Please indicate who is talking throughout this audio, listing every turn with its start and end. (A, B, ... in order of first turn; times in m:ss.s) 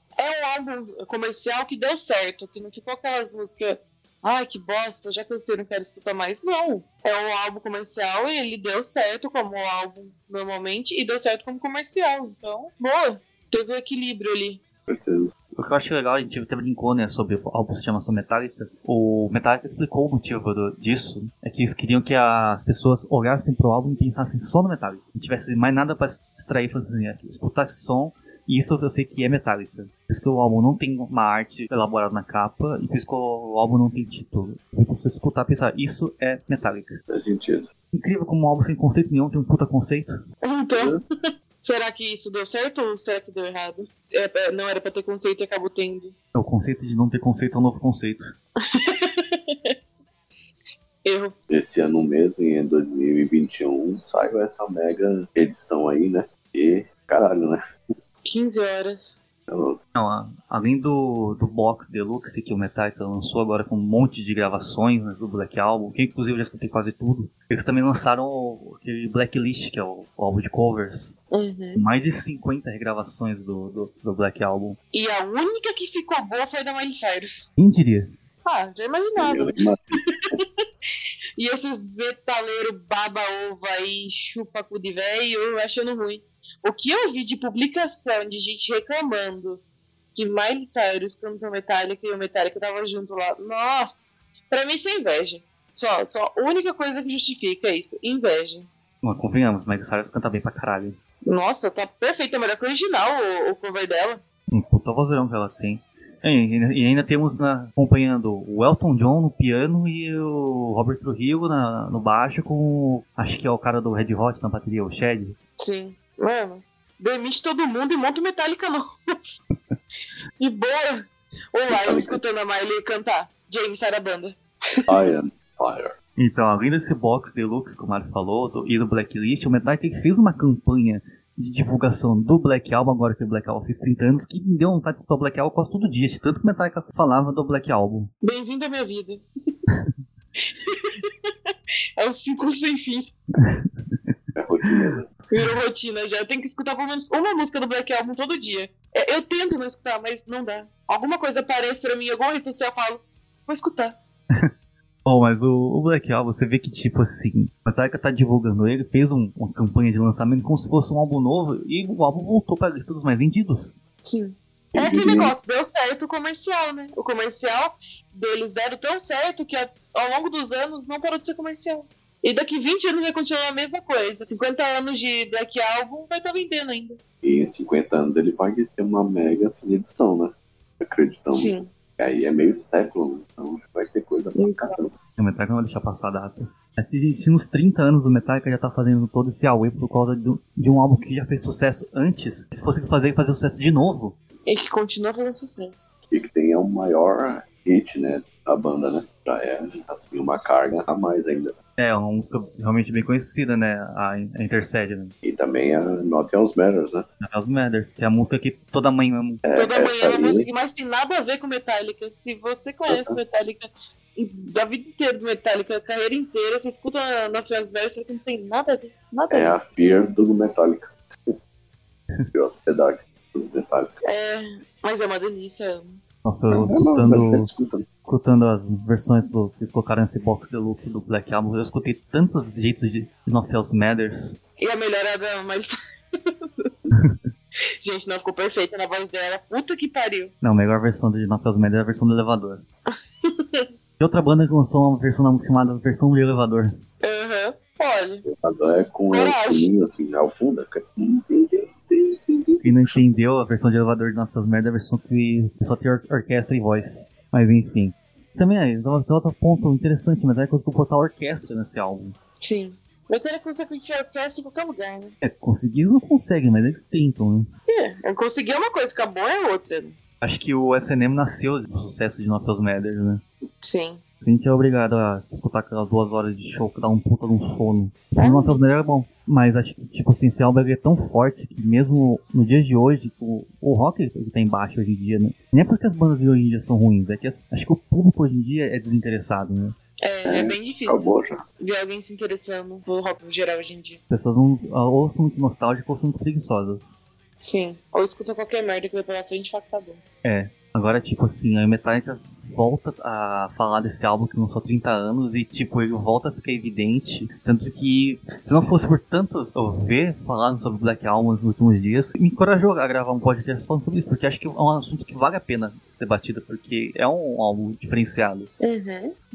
0:00.2-0:14.6 A
0:14.9-0:15.3 B
0:15.5-0:37.0 C
0:37.1-0:37.7 B
0:37.9-0:40.1 C
0:40.4-0:46.1 A
0:40.8-0:41.0 B
0:46.3-0:48.3 C
0:48.6-0:49.7 A
0:51.0-0:51.3 A
0:51.5-0:57.6 B
0:58.2-0:59.2 A
0:59.5-0:59.8 B
0:59.9-1:11.2 C
1:11.3-1:11.8 A
1:11.8-1:14.8 C
1:14.9-1:17.5 A
1:17.6-1:18.1 C
1:18.4-1:20.4 A
1:19.2-1:20.4 B
1:21.4-1:29.6 A
1:30.1-1:38.7 A
1:39.0-1:41.0 C
1:41.2-1:44.2 A
1:44.5-1:55.3 C
1:55.6-1:59.1 A
2:00.4-2:04.9 A
2:01.7-2:02.2 B
2:04.9-2:05.9 B
2:06.2-2:18.1 C
2:18.2-2:19.2 A
2:20.4-2:21.3 A
2:22.0-2:23.1 A
2:23.4-2:24.1 C
2:24.4-2:25.1 B
2:25.3-2:34.0 A
2:35.0-2:43.7 C
2:44.0-2:57.0 A
2:44.7-2:45.3 B
2:57.2-3:04.9 B
3:01.3-3:01.7 A
3:04.4-3:04.8 A
3:05.2-3:14.1 C
3:14.4-3:16.0 A
3:16.1-3:21.6 B
3:21.8-3:25.1 C
3:25.2-3:27.0 B
3:27.2-3:29.4 C
3:29.4-3:30.5 B
3:29.5-3:39.6 A
3:32.9-3:33.2 B
3:39.3-3:41.3 B
3:42.3-3:44.0 B
3:44.0-3:46.0 A
3:46.2-3:47.5 C
3:46.5-3:47.9 B
3:48.0-3:54.4 C
3:54.6-3:56.7 A
3:57.8-4:00.3 A
4:00.4-4:02.6 C
4:02.9-4:03.7 A
4:04.0-4:06.8 C
4:07.0-4:08.2 A
4:08.2-4:13.0 B
4:09.1-4:09.7 A
4:12.6-4:22.1 C
4:22.4-4:25.1 A
4:25.2-4:27.5 C
4:27.7-4:30.0 A
4:30.2-4:33.2 C
4:33.6-4:34.0 A
4:34.2-4:49.7 C
4:38.2-4:38.6 A
4:50.0-4:54.0 A
4:50.2-4:51.4 B
4:54.1-4:56.9 C
4:57.4-5:00.0 A
5:00.2-5:18.5 C
5:18.6-5:19.1 A